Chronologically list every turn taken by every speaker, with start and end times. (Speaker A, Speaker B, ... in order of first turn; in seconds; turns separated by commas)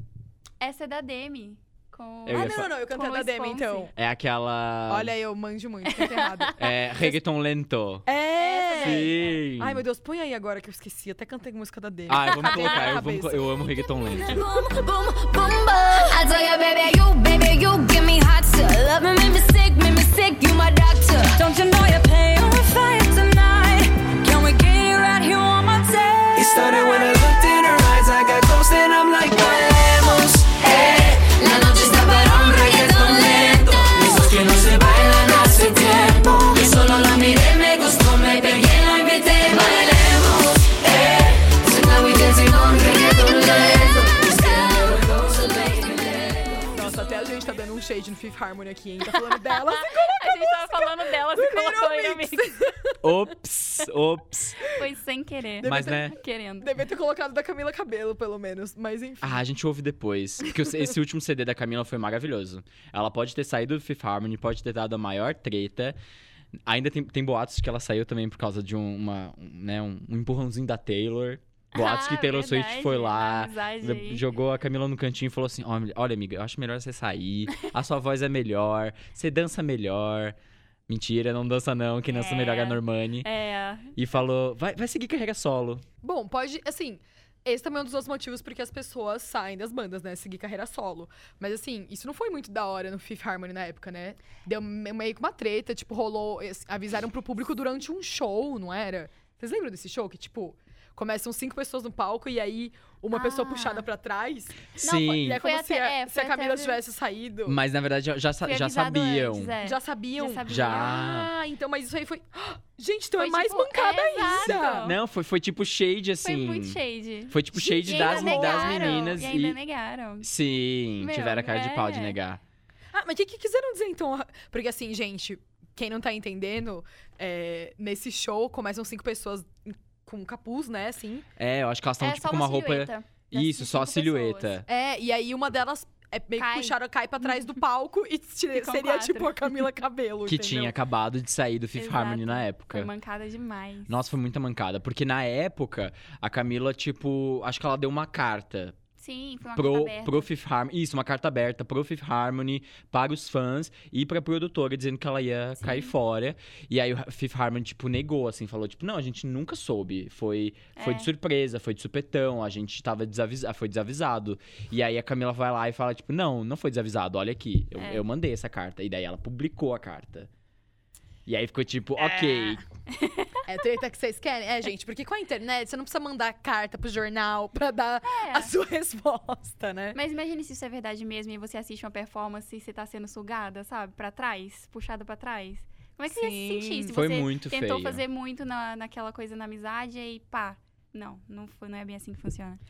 Speaker A: 0.6-3.9, Speaker B: 2.2-2.7, Speaker C: 2.3-3.9, Speaker B: 3.9-5.1, Speaker C: 4.9-7.1, Speaker A: 5.8-6.5, Speaker B: 6.5-8.1, Speaker C: 8.1-13.7, Speaker A: 8.3-9.4, Speaker B: 8.8-9.8, Speaker B: 12.1-14.3, Speaker D: 14.2-26.5, Speaker E: 26.3-31.2, Speaker D: 30.6-33.9, Speaker E: 32.3-36.9, Speaker D: 34.8-46.7, Speaker E: 40.9-41.3, Speaker E: 44.4-45.0, Speaker C: 46.7-53.1, Speaker A: 49.5-52.5, Speaker B: 53.0-54.6, Speaker A: 54.7-56.7, Speaker C: 55.6-59.4, Speaker B: 55.6-56.1, Speaker B: 59.2-66.0, Speaker B: 66.7-80.3, Speaker A: 71.7-74.2, Speaker B: 80.9-83.3, Speaker A: 82.0-84.0, Speaker B: 84.0-85.8, Speaker C: 86.0-107.6, Speaker A: 103.1-103.9, Speaker B: 104.8-105.4, Speaker A: 104.8-106.8, Speaker B: 107.5-109.5, Speaker A: 108.4-111.0, Speaker C: 109.6-114.9, Speaker B: 110.5-111.3, Speaker A: 113.2-115.0, Speaker B: 114.5-119.6, Speaker A: 116.2-120.3, Speaker C: 117.5-119.0, Speaker B: 120.2-122.4, Speaker A: 121.0-122.2, Speaker C: 122.9-131.2, Speaker B: 131.4-134.6, Speaker A: 132.0-134.6, Speaker C: 134.7-140.8, Speaker A: 136.3-137.3, Speaker A: 138.5-139.6, Speaker B: 140.3-142.9, Speaker A: 141.7-144.1, Speaker B: 143.9-148.7, Speaker A: 149.0-150.3, Speaker B: 149.5-170.3, Speaker A: 155.6-155.9, Speaker A: 160.8-161.1, Speaker A: 167.8-168.1, Speaker B: 171.2-172.6, Speaker C: 172.2-172.5, Speaker A: 172.9-173.4, Speaker C: 173.4-180.0, Speaker A: 178.0-178.5, Speaker A: 179.9-192.6, Speaker C: 186.1-186.9, Speaker B: 186.9-188.0